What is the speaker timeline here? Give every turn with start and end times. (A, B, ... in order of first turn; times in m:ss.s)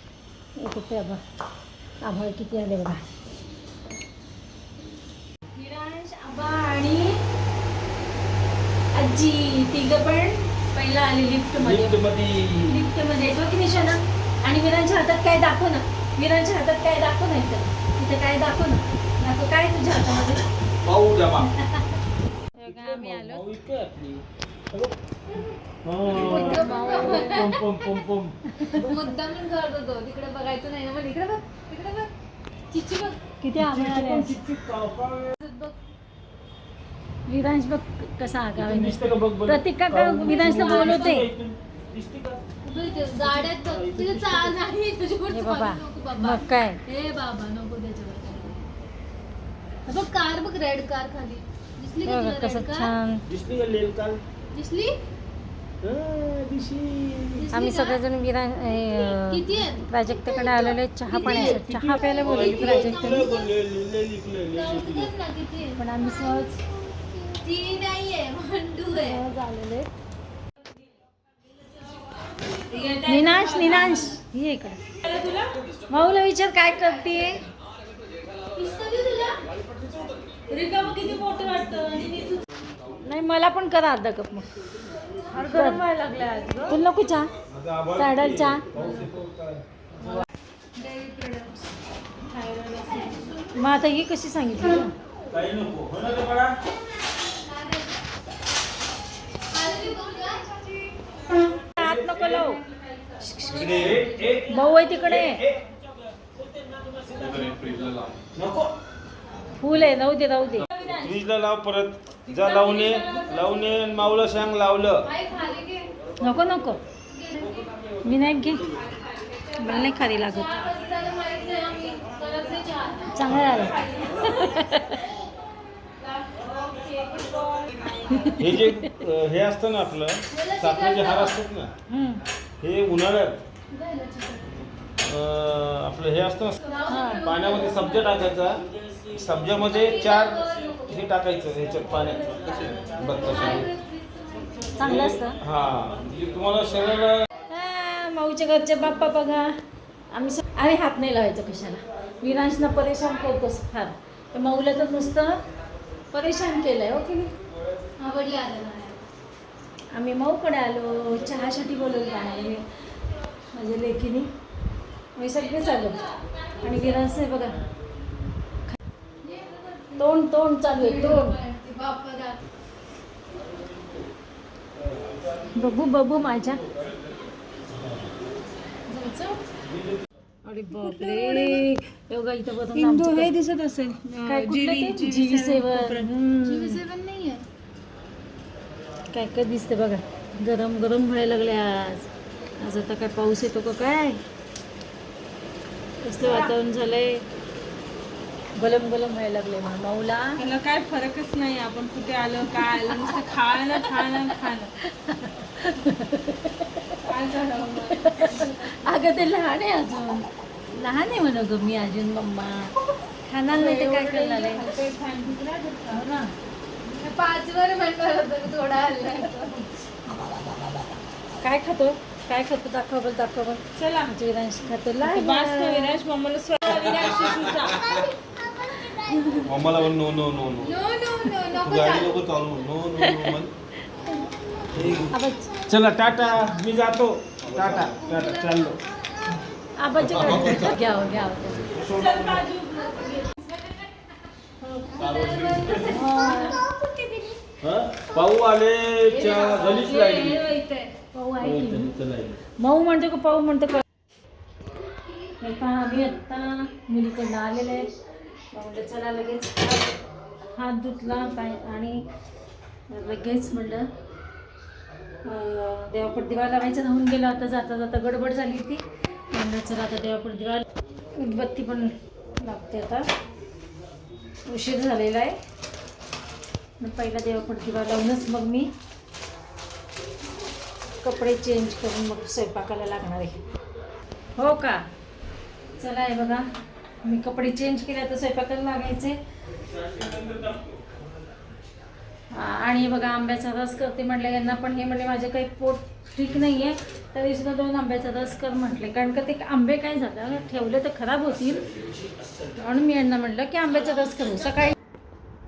0:00.6-0:01.2 A
0:02.0-0:03.0 A
0:05.5-0:07.2 A
0:08.9-0:12.0 A
0:11.6-0:12.8 B
0:12.6-0:20.5 A
0:20.8-0:21.5 B
0:21.4-0:21.9 A
0:22.6-0:23.6 A
0:22.6-0:24.9 B
0:25.8-0:28.9 B
0:26.1-0:27.7 C
0:26.1-0:27.5 A
0:28.5-0:28.8 A
0:28.7-0:32.1 C
0:32.7-0:33.2 C
0:33.4-0:34.4 A
0:33.5-0:35.3 B
0:35.4-0:35.8 C
0:37.2-0:41.3 A
0:38.6-0:42.4 B
0:40.2-0:41.2 C
0:42.6-0:48.6 C
0:43.2-0:44.6 B
0:45.3-0:46.8 A
0:49.8-0:52.9 C
0:52.0-0:53.2 A
0:53.3-0:54.2 B
0:54.5-0:55.0 C
0:55.8-0:57.5 B
0:57.4-0:58.0 C
0:57.5-1:03.2 A
0:59.0-1:03.5 C
1:01.1-1:05.1 B
1:04.5-1:06.5 C
1:05.8-1:06.6 A
1:07.2-1:09.2 C
1:08.9-1:09.9 A
1:12.0-1:14.1 C
1:13.0-1:14.9 A
1:15.0-1:15.5 C
1:15.9-1:17.4 A
1:18.5-1:19.4 C
1:20.5-1:22.4 C
1:23.0-1:24.5 A
1:25.3-1:26.8 D
1:25.5-1:25.8 A
1:26.6-1:27.3 A
1:27.5-1:30.2 B
1:27.9-1:28.7 A
1:30.7-1:31.7 C
1:32.3-1:33.2 D
1:32.8-1:33.5 C
1:33.5-1:34.9 A
1:35.3-1:36.6 B
1:37.2-1:38.0 C
1:39.5-1:41.0 C
1:41.7-1:42.6 A
1:41.8-1:42.5 B
1:43.0-1:44.3 C
1:43.2-1:45.4 A
1:43.5-1:45.8 B
1:46.6-1:47.7 B
1:47.2-1:48.2 D
1:48.3-1:48.7 B
1:49.6-1:50.7 A
1:50.8-1:55.1 B
1:52.4-1:53.5 C
1:55.0-1:55.9 C
1:56.2-1:56.8 A
1:57.1-1:57.7 C
1:58.0-1:58.7 A
1:59.0-2:04.6 C
1:59.6-2:00.7 A
2:03.1-2:05.1 A
2:06.0-2:08.4 C
2:08.1-2:08.8 A
2:08.4-2:11.7 B
2:10.3-2:11.4 C
2:11.9-2:12.2 A
2:12.6-2:13.4 B
2:13.7-2:14.6 C
2:15.0-2:16.6 B
2:16.6-2:18.3 C
2:16.9-2:17.3 A
2:17.2-2:23.7 B
2:19.7-2:21.1 C
2:21.8-2:25.1 C
2:24.8-2:25.4 A
2:24.8-2:27.2 B
2:27.4-2:35.4 A
2:36.1-2:37.3 A
2:38.0-2:39.0 C
2:39.9-2:42.6 A
2:43.5-2:44.3 A
2:45.2-2:47.6 A
2:45.4-2:47.1 C
2:49.2-2:52.4 C
2:50.0-2:51.4 A
2:54.8-2:55.1 B
2:55.4-2:56.6 A
2:58.9-2:59.4 C
3:00.4-3:03.4 A
3:00.7-3:01.6 C
3:02.8-3:07.4 C
3:02.8-3:06.0 D
3:04.2-3:06.8 A
3:09.1-3:14.2 A
3:16.0-3:17.2 A
3:16.2-3:16.5 D
3:18.5-3:20.4 A
3:20.4-3:24.7 D
3:22.5-3:27.0 A
3:27.1-3:28.5 D
3:27.7-3:34.7 A
3:33.5-3:36.0 D
3:35.9-3:36.3 A
3:36.8-3:39.7 C
3:41.4-3:46.0 A
3:45.0-3:48.0 D
3:46.9-3:49.5 C
3:49.4-3:50.7 B
3:50.6-3:52.3 C
3:51.5-3:53.5 B
3:53.0-3:53.3 A
3:53.9-3:54.2 A
3:54.7-3:55.1 B
3:55.1-3:55.6 A
3:55.6-3:58.8 B
3:57.5-3:57.9 D
3:57.7-3:58.6 C
3:59.8-4:01.9 A
4:00.1-4:00.5 B
4:01.7-4:02.4 B
4:01.7-4:03.0 D
4:02.5-4:03.9 C
4:04.6-4:07.4 C
4:05.0-4:06.0 B
4:05.9-4:06.6 A
4:07.6-4:10.5 B
4:09.1-4:11.0 C
4:11.1-4:11.9 A
4:11.4-4:12.4 B
4:12.6-4:13.8 A
4:15.4-4:17.9 A
4:18.5-4:20.0 A
4:20.5-4:22.1 A
4:22.9-4:23.9 A
4:25.2-4:33.0 A
4:34.5-4:35.4 A
4:36.8-4:38.7 A
4:41.0-4:43.4 A
4:44.4-4:44.8 A
4:45.8-4:46.4 A
4:47.0-4:49.2 A
4:49.8-4:50.7 B
4:52.3-5:01.7 A
5:02.5-5:04.8 A